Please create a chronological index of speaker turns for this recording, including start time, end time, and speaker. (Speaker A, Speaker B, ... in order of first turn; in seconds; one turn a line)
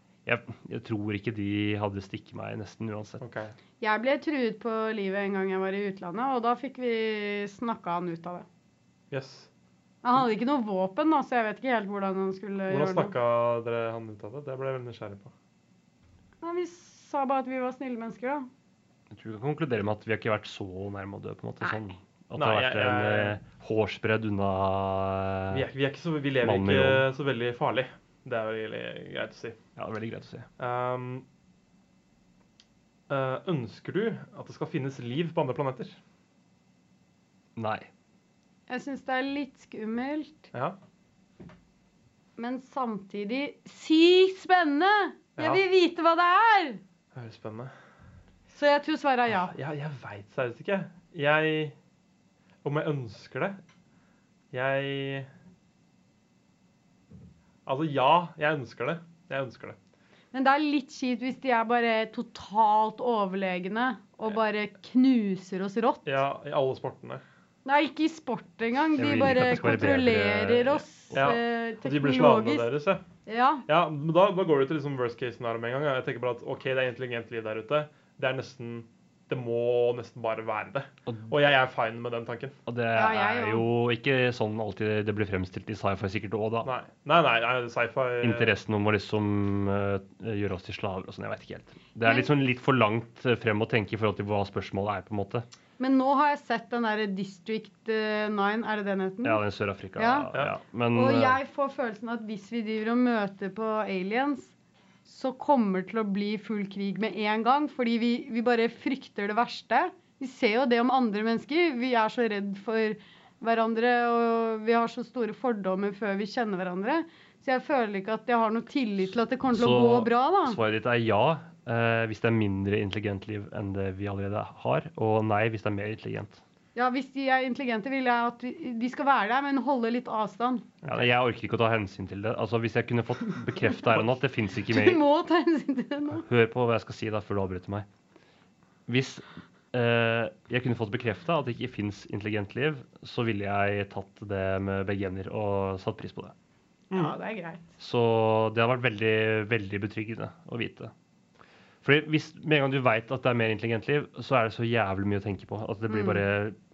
Speaker A: 0.3-3.2
Speaker B: 3.2-3.5
Speaker C: 3.8-8.5
Speaker B: 9.1-9.5
Speaker C: 10.0-13.1
Speaker B: 12.7-15.3
Speaker C: 16.4-18.5
Speaker A: 19.1-25.7
Speaker B: 22.4-23.4
Speaker B: 25.5-29.6
Speaker A: 26.4-27.1
Speaker A: 29.8-30.5
Speaker B: 30.6-31.2
Speaker B: 33.1-36.0
Speaker A: 37.6-37.9
Speaker C: 38.7-40.5
Speaker C: 42.4-46.8
Speaker B: 45.4-45.6
Speaker B: 47.1-47.7
Speaker C: 48.5-49.5
Speaker B: 49.3-51.8
Speaker B: 52.6-53.6
Speaker B: 54.5-55.3
Speaker B: 57.7-59.8
Speaker C: 60.3-66.2
Speaker B: 66.0-67.2
Speaker C: 67.7-72.7
Speaker A: 69.0-71.2
Speaker B: 71.1-73.0
Speaker C: 73.2-73.7
Speaker B: 73.7-82.6
Speaker A: 82.7-86.7
Speaker C: 82.9-83.7
Speaker B: 86.6-88.5
Speaker A: 88.2-95.5
Speaker C: 92.0-92.3
Speaker C: 95.8-99.4
Speaker A: 99.2-101.4
Speaker C: 100.0-100.3
Speaker C: 100.9-104.5
Speaker C: 105.0-120.6
Speaker A: 119.5-126.4
Speaker C: 126.8-130.7
Speaker B: 130.8-131.1
Speaker A: 130.9-135.0
Speaker C: 134.7-136.2
Speaker A: 136.2-137.9
Speaker A: 138.9-146.3
Speaker C: 146.9-147.6
Speaker A: 147.8-150.9
Speaker A: 151.8-156.6
Speaker C: 155.9-156.2